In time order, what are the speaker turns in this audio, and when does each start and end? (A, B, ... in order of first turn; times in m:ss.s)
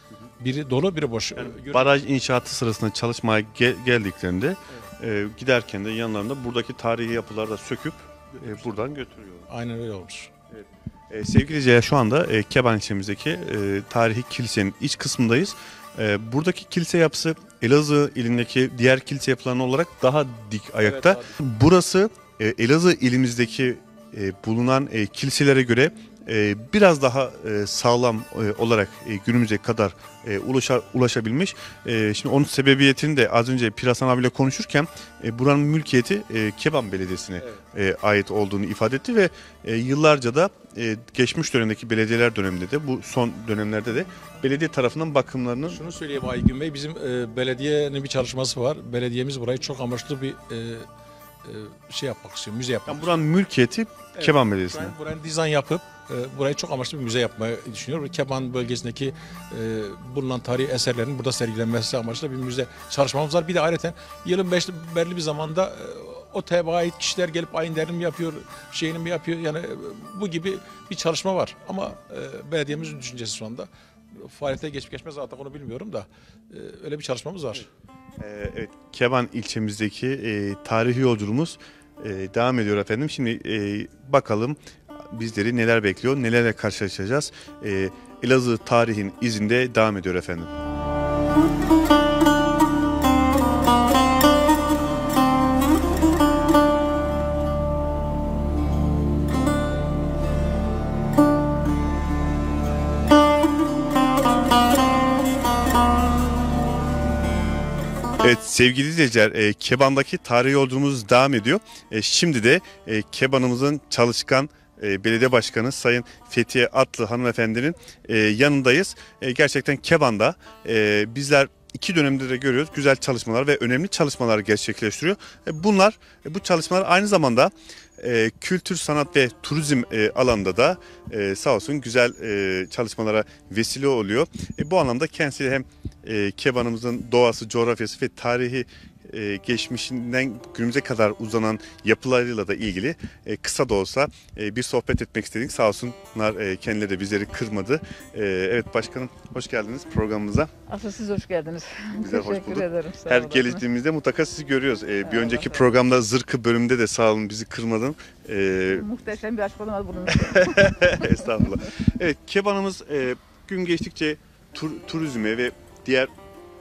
0:00.4-0:02.0 A
0:01.4-0:09.5 B
0:08.3-0:08.8 A
0:09.5-0:10.3 A
0:10.5-0:45.8 B
0:20.8-0:21.4 A
0:45.7-0:50.8 A
0:51.4-0:53.2 A
0:52.9-0:54.9 B
0:54.1-1:17.7 A
1:18.2-1:24.6 B
1:25.1-1:30.5 B
1:48.2-2:30.5 B
2:30.7-2:33.4 C
2:32.0-2:38.9 B
2:35.2-2:35.5 C
2:38.8-2:40.5 C
2:40.1-2:46.1 B